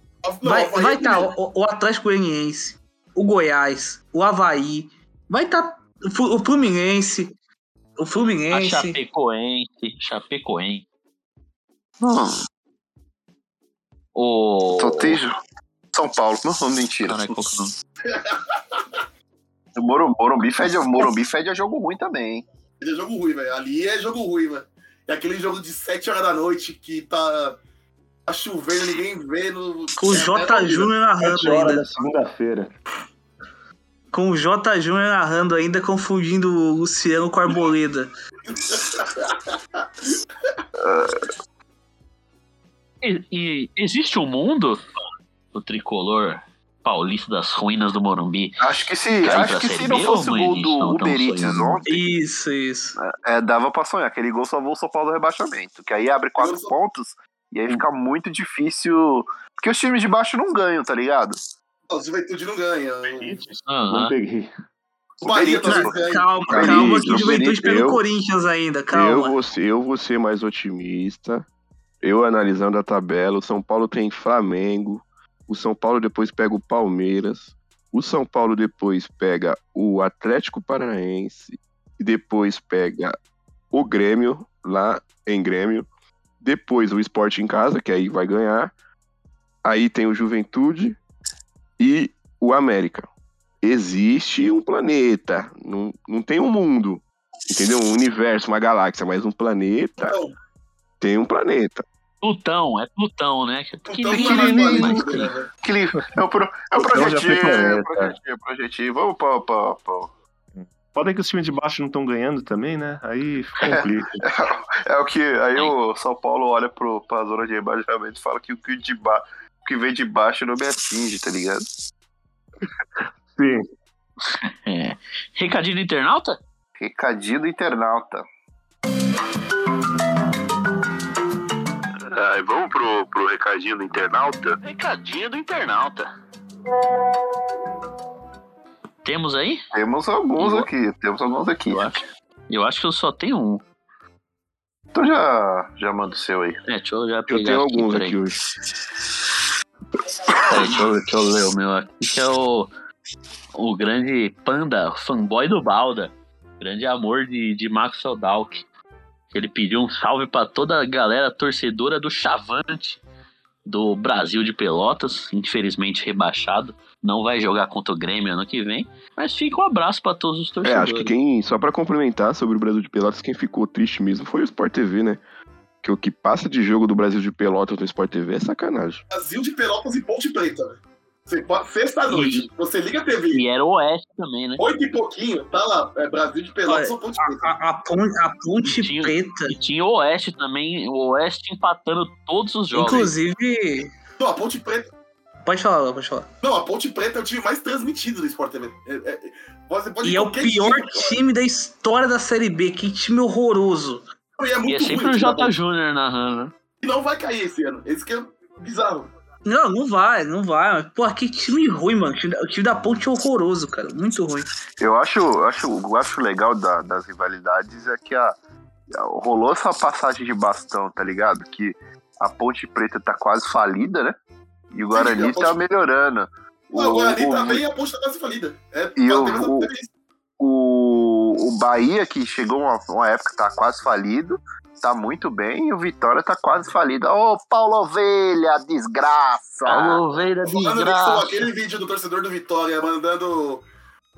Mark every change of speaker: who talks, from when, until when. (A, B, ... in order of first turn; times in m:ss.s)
0:00.2-0:01.3 A
0:00.4-0:07.3 B
0:08.0-0:09.0 B
0:08.5-0:10.8 C
0:12.0-0:12.4 D
0:14.1-0:15.2 C
0:14.8-0:15.4 D
0:15.9-0:17.2 D
0:17.1-0:17.7 C
0:18.0-0:19.0 A
0:19.8-0:22.4 D
0:22.8-0:27.6 A
0:28.3-0:30.9 A
0:30.0-0:31.8 B
0:31.2-0:32.7 E
0:34.1-0:38.1 B
0:38.5-0:39.5 A
0:40.8-0:41.2 D
0:43.0-0:44.8 C
0:45.5-0:48.6 C
0:48.6-0:52.0 D
0:49.2-0:51.8 C
0:51.9-0:53.0 B
0:53.1-1:01.4 D
0:56.4-0:56.7 A
1:01.9-1:03.4 A
1:03.1-1:04.5 E
1:03.7-1:04.1 C
1:05.2-1:07.1 A
1:05.2-1:08.0 D
1:05.6-1:09.3 B
1:07.2-1:07.9 F
1:08.9-1:11.5 F
1:12.0-1:23.2 F
1:23.7-1:25.9 F
1:26.4-1:28.7 F
1:29.6-1:31.0 F
1:31.8-1:33.1 F
1:33.6-1:40.2 F
1:40.0-1:40.3 A
1:41.0-1:41.8 F
1:42.2-1:45.3 C
1:43.9-1:45.5 A
1:44.1-1:50.1 D
1:46.7-1:48.2 E
1:50.6-1:54.2 E
1:53.6-2:01.7 D
2:03.3-2:03.7 E
2:04.2-2:06.4 C
2:06.8-2:08.3 D
2:13.2-2:14.3 D
2:14.6-2:16.0 C
2:19.0-2:19.6 C
2:19.7-2:21.9 D
2:20.4-2:20.7 C
2:21.7-2:22.0 C
2:22.5-2:23.6 C
2:24.9-2:26.6 D
2:26.7-2:28.2 C
2:27.3-2:28.4 F
2:30.3-2:30.8 D
2:30.5-2:32.7 C
2:33.6-2:38.6 C
2:39.3-2:43.0 C
2:43.6-2:51.1 C
2:50.6-2:55.2 F
2:55.8-2:59.0 F
2:59.1-3:03.4 A
3:02.1-3:02.5 C
3:03.3-3:04.6 C
3:04.6-3:07.4 A
3:06.6-3:09.6 B
3:08.6-3:13.1 C
3:12.7-3:13.9 B
3:14.2-3:14.9 A
3:15.4-3:16.3 B
3:16.4-3:21.2 A
3:20.0-3:24.0 B
3:24.4-3:25.6 A
3:24.7-3:26.5 C
3:26.8-3:29.1 A
3:29.4-3:34.5 B
3:34.8-3:38.4 D
3:38.9-3:44.2 D
3:44.7-3:47.6 D
3:44.9-3:45.6 A
3:46.7-3:49.9 A
3:49.0-3:49.7 D
3:50.4-4:00.0 D
3:59.7-4:01.5 C
4:00.4-4:03.6 A